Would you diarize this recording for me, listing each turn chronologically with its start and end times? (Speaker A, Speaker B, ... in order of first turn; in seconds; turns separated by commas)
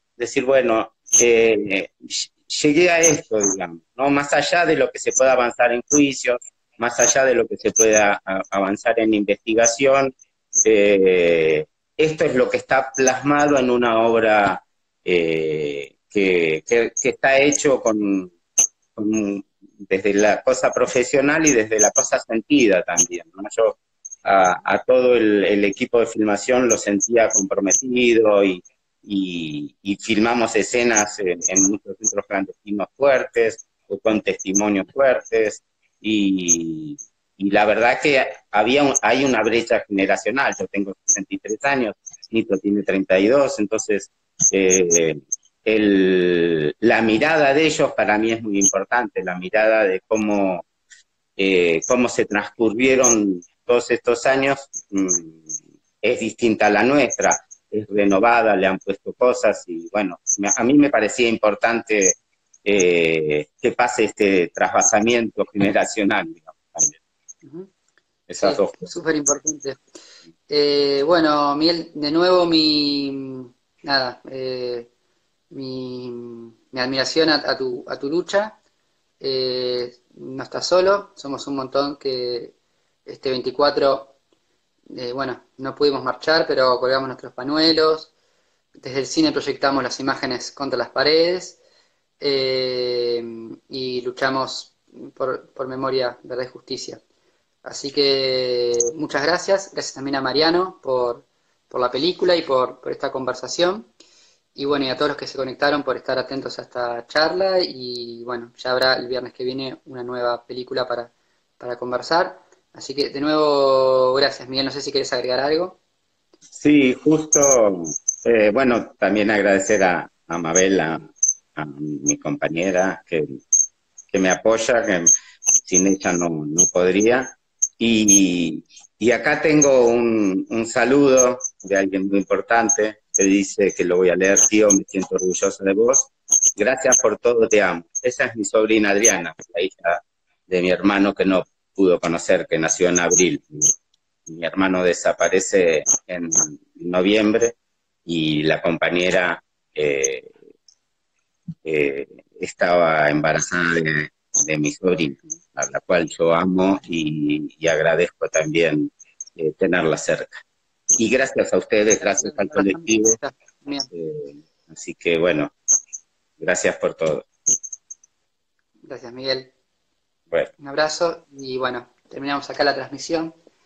Speaker A: 0.2-18.3, Speaker A: 18.9-50.7, Speaker A: 51.4-55.5, Speaker A: 56.0-67.0, Speaker B: 67.4-67.7, Speaker A: 68.3-68.9, Speaker B: 68.4-69.8, Speaker B: 70.5-74.9, Speaker B: 75.5-78.5, Speaker B: 79.2-82.5, Speaker B: 83.0-84.1, Speaker B: 84.9-88.1, Speaker B: 88.8-91.6, Speaker B: 92.2-97.0, Speaker B: 97.6-103.9, Speaker B: 104.5-115.8, Speaker A: 116.5-123.3, Speaker A: 124.1-125.1, Speaker A: 125.6-143.7, Speaker A: 144.3-150.3, Speaker A: 151.6-160.4, Speaker A: 161.0-163.2, Speaker B: 162.0-163.9, Speaker A: 163.9-165.5, Speaker A: 166.4-167.3, Speaker B: 168.8-169.5, Speaker B: 170.6-173.3